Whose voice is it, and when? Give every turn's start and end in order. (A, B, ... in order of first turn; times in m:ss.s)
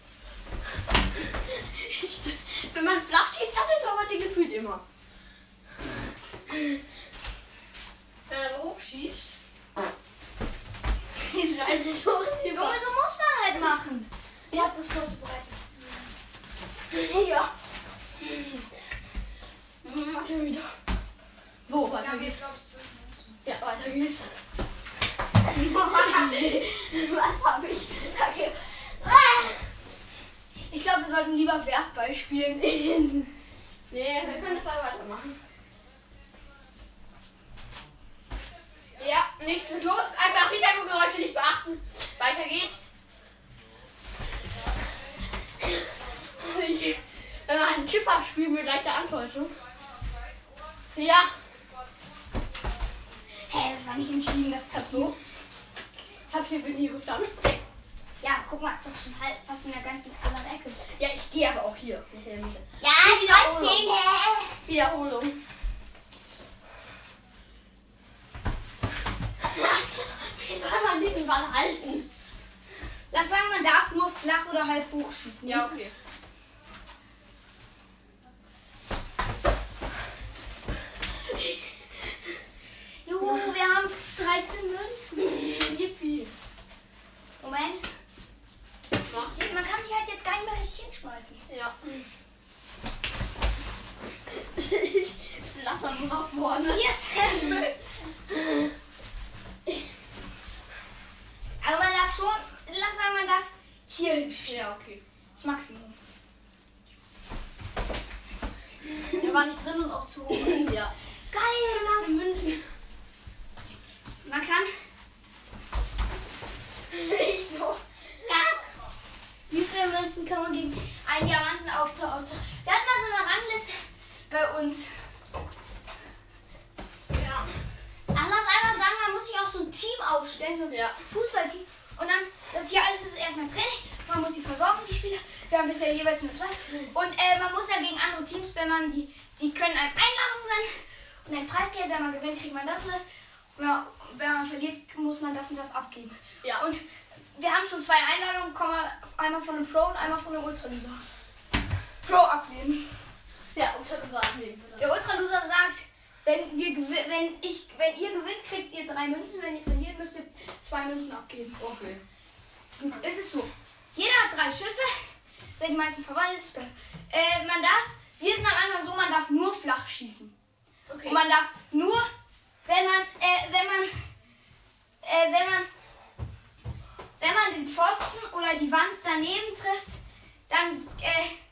0:01.1-0:04.8 A
0:08.3-0:09.4 A
0:11.2-0:12.8 A
0:12.5-0:16.1 B
0:16.9-0:17.5 A
0:18.2-0:18.5 A
0:19.8-0:20.7 A
0:21.6-0:22.4 A
0:21.8-0:23.4 B
0:23.4-0:24.3 A
0:25.5-0:26.6 B
0:25.6-0:29.6 A
0:30.7-0:33.2 B
0:33.9-0:35.4 A
0:39.0-0:42.8 A
0:45.6-0:49.5 A
0:50.9-0:51.3 A
0:53.4-0:55.1 B
0:54.7-0:55.2 A
0:56.3-0:57.6 A
0:58.2-1:00.8 B
1:00.9-1:03.9 A
1:02.8-1:04.6 B
1:04.6-1:05.4 A
1:09.4-1:12.1 A
1:13.1-1:15.8 B
1:15.4-1:15.9 A
1:23.0-1:25.4 B
1:25.2-1:26.3 A
1:27.4-1:27.8 B
1:29.1-1:29.4 A
1:29.2-1:31.4 B
1:31.5-1:32.0 A
1:34.5-1:36.9 A
1:36.7-1:38.1 B
1:41.6-1:44.6 B
1:44.4-1:45.0 A
1:45.3-1:46.0 B
1:49.1-1:50.8 B
1:50.3-1:50.9 A
1:51.3-1:52.2 B
1:51.7-1:52.6 A
1:54.2-1:54.7 B
1:56.9-1:57.8 A
1:58.3-1:58.6 B
1:59.5-2:03.8 B
2:04.3-2:04.9 B
2:07.1-2:07.5 A
2:08.1-2:23.0 B
2:10.7-2:11.0 A
2:23.6-2:26.8 B
2:27.3-2:31.0 B
2:32.0-2:32.9 B
2:33.5-2:34.9 A
2:34.8-2:41.6 B
2:41.6-2:42.0 A
2:42.8-2:44.9 B
2:45.6-2:50.3 B
2:50.9-2:51.2 A
2:51.0-2:52.1 B
2:52.7-2:53.9 B
2:55.0-2:55.7 B
2:57.2-3:00.0 B
3:00.5-3:01.3 B